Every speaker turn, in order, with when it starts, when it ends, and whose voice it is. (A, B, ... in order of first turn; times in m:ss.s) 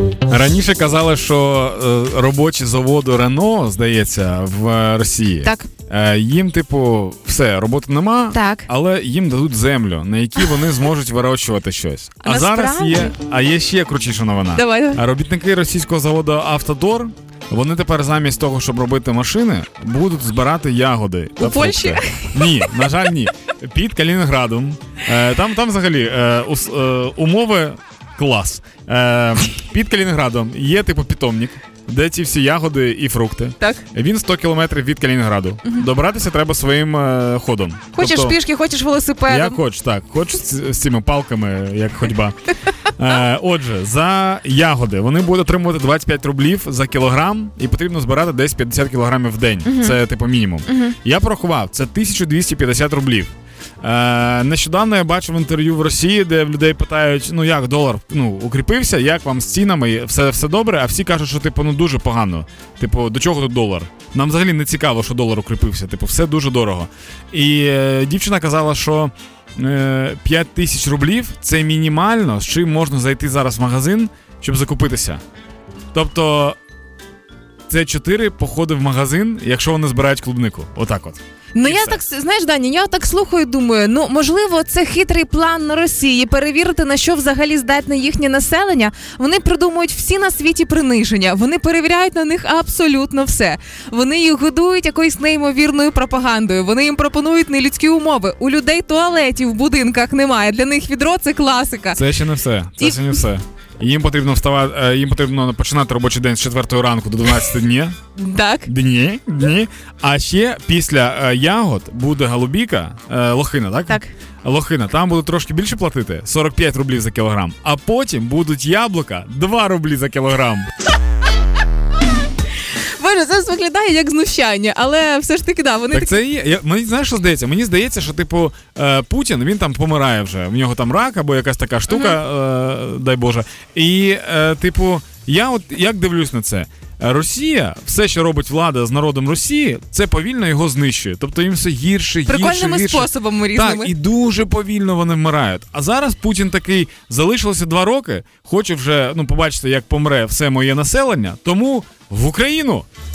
0:00.3-0:38.4 A
0:08.3-0:08.7 B
0:12.2-0:13.1 B
0:14.5-0:15.0 B
0:21.4-0:22.7 B
0:38.0-0:39.6 B
0:39.3-1:15.2 A
0:49.6-0:50.0 B
0:50.6-0:50.9 B
1:15.9-1:16.6 A
1:17.7-1:22.0 A
1:21.5-1:42.0 B
1:41.9-1:48.0 A
1:42.8-1:43.2 B
1:48.2-1:48.7 B
1:48.6-2:00.7 A
2:02.7-2:06.2 B
2:05.9-2:32.9 A
2:11.9-2:12.2 B
2:22.2-2:23.9 B